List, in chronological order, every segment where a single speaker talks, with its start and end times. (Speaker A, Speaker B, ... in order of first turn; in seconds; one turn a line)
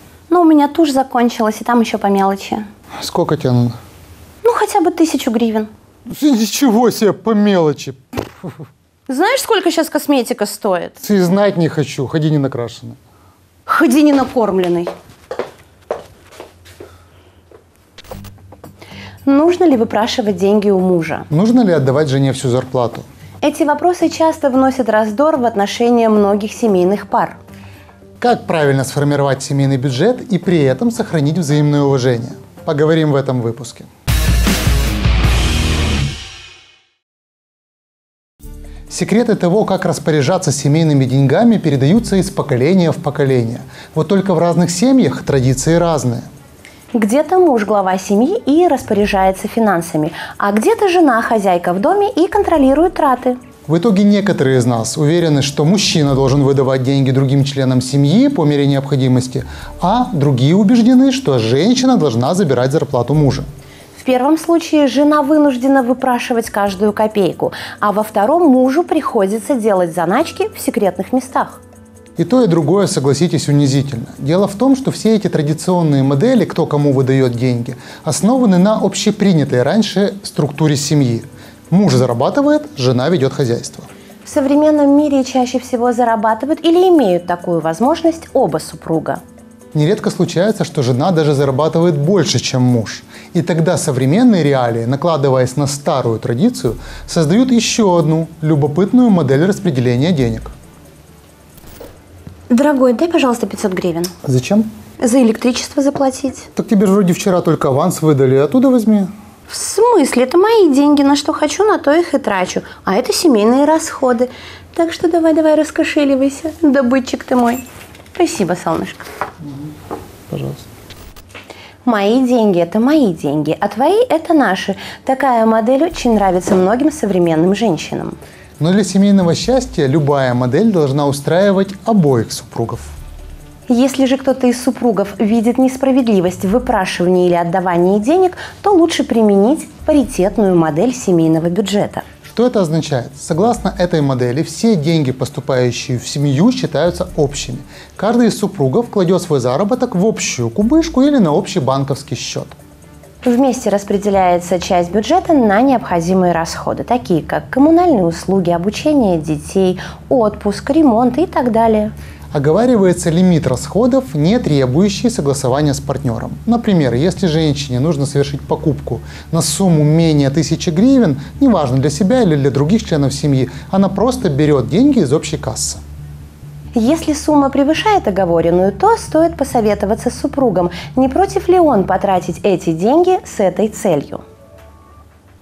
Speaker A: 0.3-2.7
Speaker B: 3.0-3.8
Speaker A: 4.4-5.7
Speaker B: 6.1-8.5
Speaker A: 9.1-11.0
Speaker B: 11.0-13.0
Speaker A: 13.7-14.9
Speaker A: 19.2-21.3
Speaker B: 21.3-23.1
Speaker A: 23.4-27.4
Speaker B: 28.2-33.9
Speaker B: 38.9-46.3
Speaker A: 46.9-53.4
Speaker B: 53.6-63.5
Speaker A: 63.9-71.6
Speaker B: 72.2-83.9
Speaker A: 84.2-89.2
Speaker B: 89.7-100.5
Speaker A: 102.5-104.1
Speaker B: 104.2-104.7
Speaker A: 105.0-106.5
Speaker B: 106.5-109.1
Speaker A: 109.5-119.1
Speaker B: 120.3-120.6
Speaker A: 121.8-128.2
Speaker B: 128.6-132.9
Speaker A: 133.7-142.1
Speaker B: 142.3-152.6
Speaker A: 153.2-161.9
Speaker B: 162.3-175.8
Speaker A: 176.7-184.2